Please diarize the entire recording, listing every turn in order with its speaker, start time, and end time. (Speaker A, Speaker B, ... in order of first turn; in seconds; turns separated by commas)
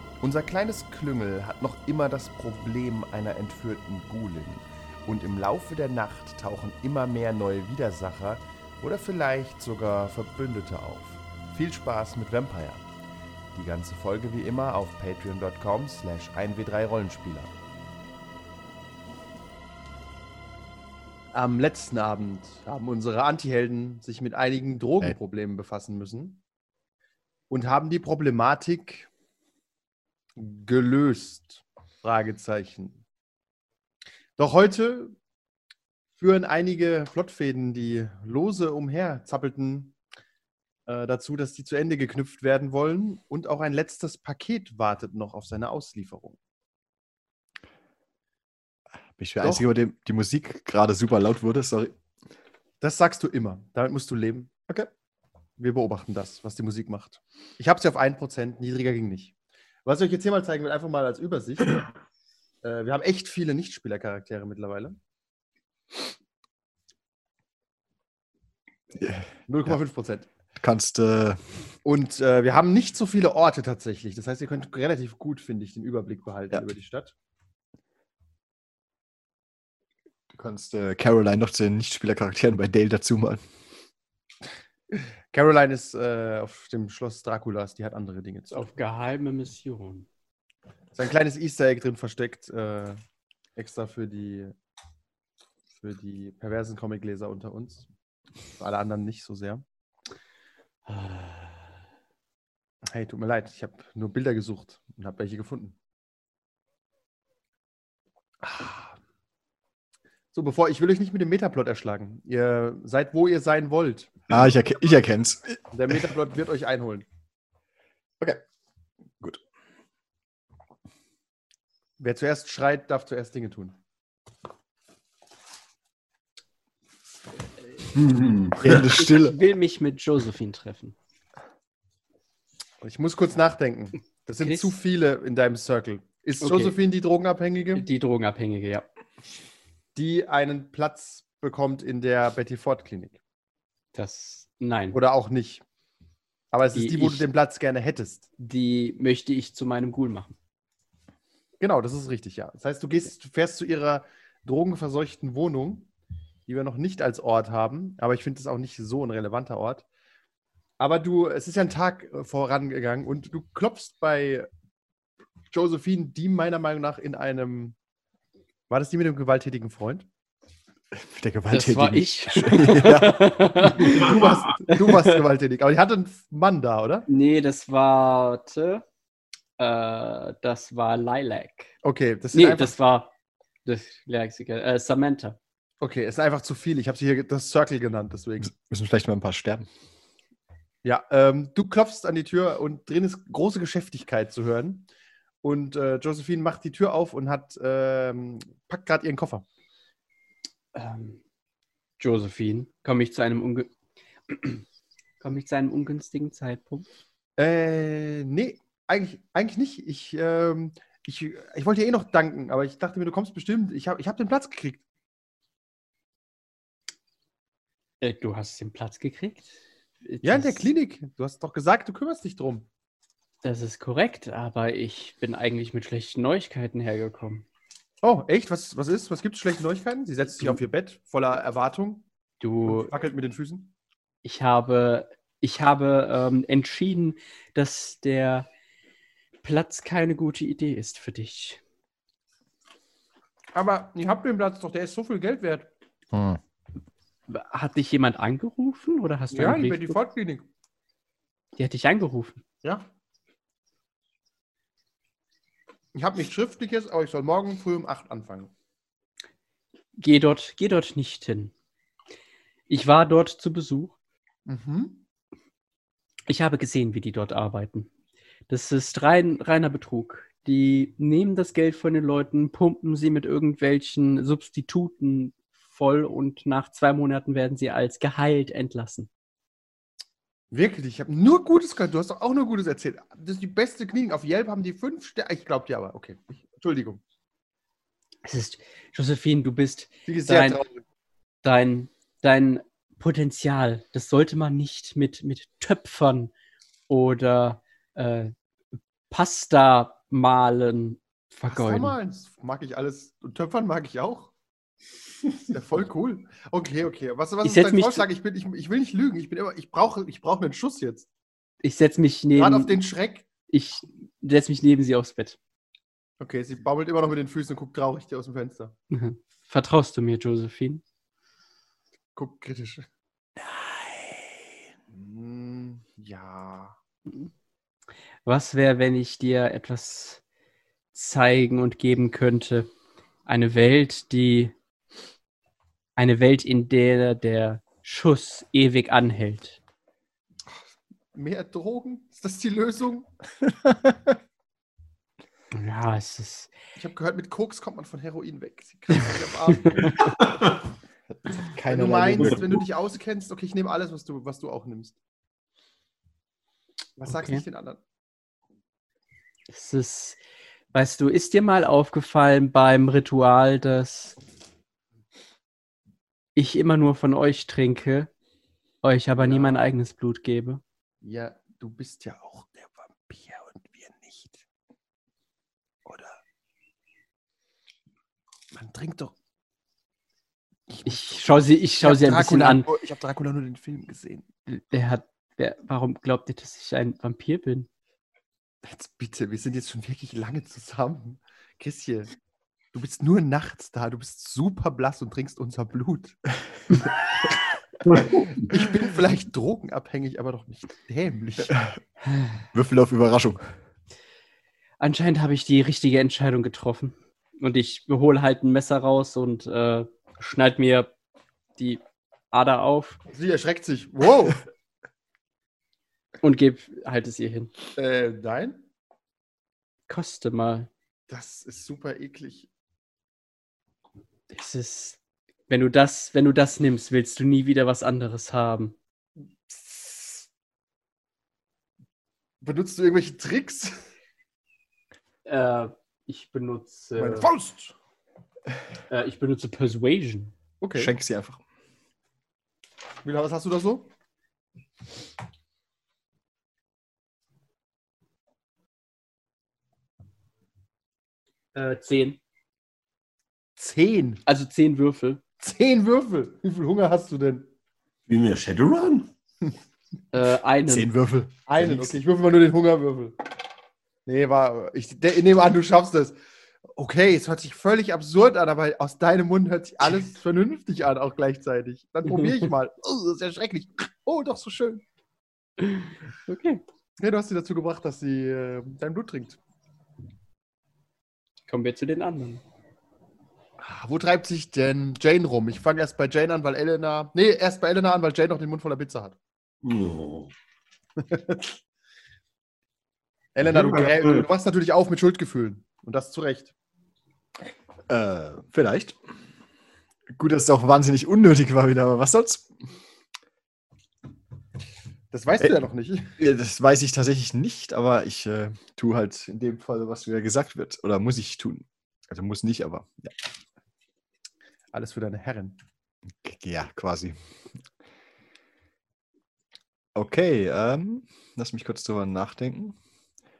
Speaker A: 0.2-12.9, Speaker A: 13.5-17.5, Speaker A: 21.3-26.4, Speaker A: 27.5-29.1, Speaker A: 30.4-33.0, Speaker A: 34.4-35.2, Speaker A: 36.2-40.0, Speaker A: 40.9-46.4, Speaker B: 49.1-51.9, Speaker A: 52.8-54.5, Speaker A: 55.6-59.3, Speaker A: 59.8-61.8, Speaker A: 62.6-65.0, Speaker B: 68.9-69.8, Speaker A: 69.5-70.3, Speaker B: 70.6-71.4, Speaker A: 71.8-77.1, Speaker B: 80.3-83.4, Speaker A: 84.9-88.7, Speaker C: 88.5-90.1, Speaker A: 90.9-93.0, Speaker A: 93.5-94.5, Speaker A: 95.8-97.9, Speaker A: 98.6-99.6, Speaker C: 100.9-101.5, Speaker A: 102.9-105.8, Speaker A: 108.4-109.0, Speaker A: 110.3-114.1, Speaker B: 114.3-116.0, Speaker A: 115.7-117.0, Speaker A: 122.0-123.8, Speaker D: 127.9-128.9, Speaker B: 128.6-129.3, Speaker C: 128.7-130.9, Speaker A: 132.8-137.8, Speaker C: 134.4-134.7, Speaker C: 136.4-136.8, Speaker C: 137.8-138.8, Speaker A: 139.9-143.2, Speaker C: 143.9-145.0, Speaker A: 144.9-145.6, Speaker A: 146.5-148.3, Speaker C: 146.8-147.2, Speaker C: 148.4-150.3, Speaker A: 151.6-155.9, Speaker A: 156.5-159.8, Speaker A: 160.8-164.5, Speaker A: 165.5-167.8, Speaker A: 168.7-170.1, Speaker B: 170.9-173.7, Speaker C: 171.5-175.2, Speaker A: 173.8-177.1, Speaker D: 173.8-174.5, Speaker C: 177.1-178.8, Speaker C: 179.6-181.7, Speaker A: 181.8-182.7, Speaker C: 182.3-183.1, Speaker C: 183.7-185.4, Speaker A: 185.8-188.5, Speaker B: 188.4-189.7, Speaker A: 190.8-194.9, Speaker A: 195.4-199.4, Speaker C: 200.7-201.2, Speaker C: 202.0-203.7, Speaker C: 204.3-204.6, Speaker C: 205.2-206.8, Speaker A: 207.4-214.8, Speaker C: 218.0-219.5, Speaker C: 220.0-220.6, Speaker A: 220.2-222.7, Speaker C: 223.4-227.4, Speaker A: 228.0-232.1, Speaker C: 232.4-232.9, Speaker A: 232.7-233.7, Speaker C: 234.2-238.5, Speaker C: 239.4-241.6, Speaker A: 243.5-245.7, Speaker B: 246.1-246.4, Speaker C: 247.3-250.0, Speaker A: 249.3-250.4, Speaker C: 251.6-252.4, Speaker A: 255.9-258.5, Speaker C: 260.0-261.5, Speaker C: 262.7-263.9, Speaker A: 264.5-265.0, Speaker C: 266.3-267.9, Speaker C: 268.5-279.1, Speaker A: 280.5-287.0, Speaker C: 288.2-290.6, Speaker A: 290.1-290.8, Speaker C: 291.4-296.3, Speaker C: 296.9-298.3, Speaker C: 299.1-302.0, Speaker A: 301.5-304.3, Speaker A: 305.5-311.1, Speaker C: 307.4-308.0, Speaker C: 311.6-312.8, Speaker A: 312.4-313.3, Speaker C: 313.5-315.4, Speaker A: 316.2-318.7, Speaker C: 318.9-320.8, Speaker A: 322.2-322.9, Speaker A: 323.7-324.2, Speaker A: 324.9-326.8, Speaker C: 328.2-330.2, Speaker C: 330.9-332.7, Speaker C: 333.3-334.5, Speaker C: 336.0-339.6, Speaker A: 341.1-343.1, Speaker C: 345.5-346.5, Speaker A: 346.8-349.9, Speaker C: 349.5-350.0, Speaker D: 349.8-350.6, Speaker B: 351.1-352.6, Speaker A: 351.7-355.0, Speaker A: 357.0-357.8, Speaker C: 357.1-357.4, Speaker C: 359.5-360.2, Speaker C: 360.7-364.2, Speaker C: 366.4-368.1, Speaker C: 368.8-370.6, Speaker A: 369.2-369.6, Speaker A: 371.0-374.4, Speaker A: 375.9-376.2, Speaker A: 378.5-379.1, Speaker A: 380.7-384.3, Speaker C: 380.9-382.7, Speaker C: 384.5-387.7, Speaker A: 388.6-392.1, Speaker A: 392.7-396.2, Speaker D: 397.9-398.5, Speaker A: 398.4-401.6, Speaker B: 402.5-403.5, Speaker C: 404.8-410.9, Speaker C: 411.6-413.0, Speaker A: 413.1-414.4, Speaker C: 416.2-417.5, Speaker A: 417.8-418.6, Speaker C: 419.9-420.7, Speaker A: 421.1-422.5, Speaker C: 424.3-425.0, Speaker C: 425.5-428.8, Speaker A: 429.5-430.2, Speaker A: 432.4-433.8, Speaker C: 435.2-437.3, Speaker A: 437.0-437.7, Speaker C: 438.9-440.3, Speaker A: 440.6-440.9, Speaker B: 440.8-441.4, Speaker A: 443.0-443.9, Speaker C: 451.5-452.2, Speaker A: 453.6-454.2, Speaker C: 454.3-455.2, Speaker A: 455.4-457.5, Speaker D: 458.1-459.1, Speaker C: 460.1-460.9, Speaker B: 460.7-462.0, Speaker A: 461.5-463.2, Speaker A: 464.1-466.2, Speaker A: 466.8-474.8, Speaker C: 475.6-476.6, Speaker A: 477.0-479.4, Speaker C: 481.5-482.4, Speaker A: 483.6-489.2, Speaker D: 489.6-490.3, Speaker A: 491.0-491.5, Speaker A: 493.4-496.5, Speaker D: 493.4-494.3, Speaker B: 497.9-499.0, Speaker B: 500.1-502.5, Speaker A: 505.1-506.2, Speaker B: 506.2-513.1, Speaker A: 514.7-515.6, Speaker B: 516.2-517.1, Speaker B: 519.9-522.8